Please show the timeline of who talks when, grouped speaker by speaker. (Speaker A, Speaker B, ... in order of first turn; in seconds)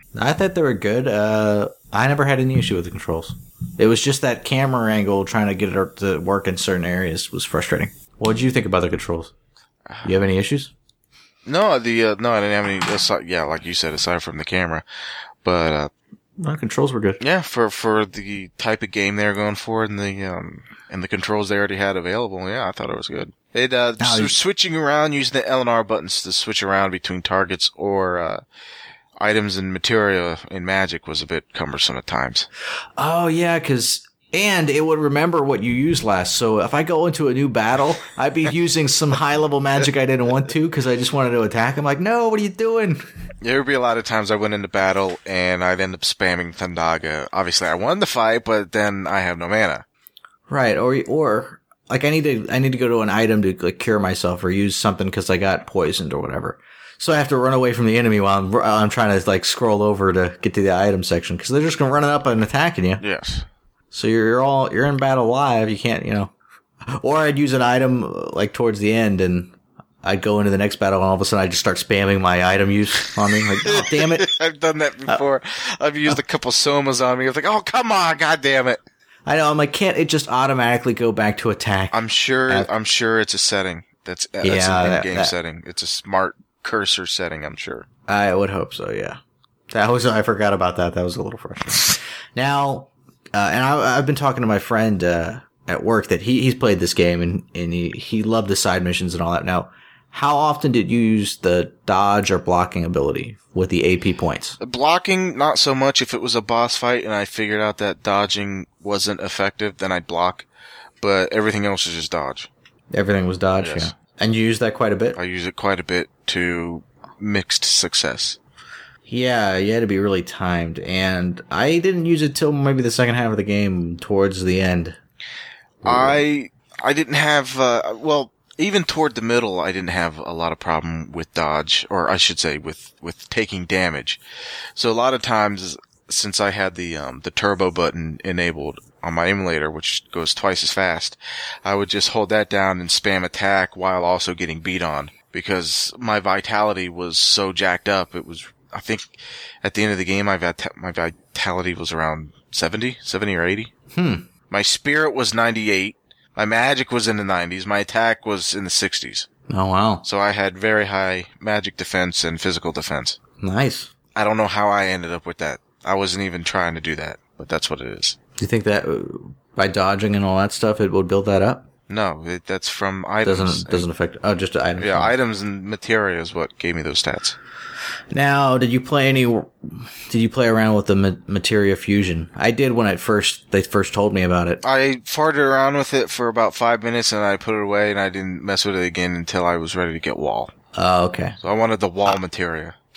Speaker A: 0.1-9.3, 10.0-10.7, 16.4-17.2, 24.0-24.3, 33.0-43.0, 50.5-63.0, 63.9-66.3, 66.9-74.3, 79.2-82.0, 84.4-85.3, 88.1-104.6, 112.9-115.2, 119.1-125.0, 125.8-126.2, 153.9-154.3, 159.5-160.0, 163.4-163.9, 168.4-171.7, 173.2-175.1, 178.1-184.6, 190.7-191.4
Speaker B: 9.9-10.1, 11.4-14.8, 15.4-15.9, 17.2-28.4, 29.2-32.5, 43.4-49.8, 63.0-63.5, 73.6-78.8, 81.9-87.8, 104.6-110.5, 111.0-112.5, 113.6-113.9, 115.1-118.4, 125.8-134.2, 134.8-153.7, 154.5-159.3, 160.0-163.2, 164.1-168.2, 171.9-173.8, 174.8-177.3, 184.6-190.5, 191.4-192.8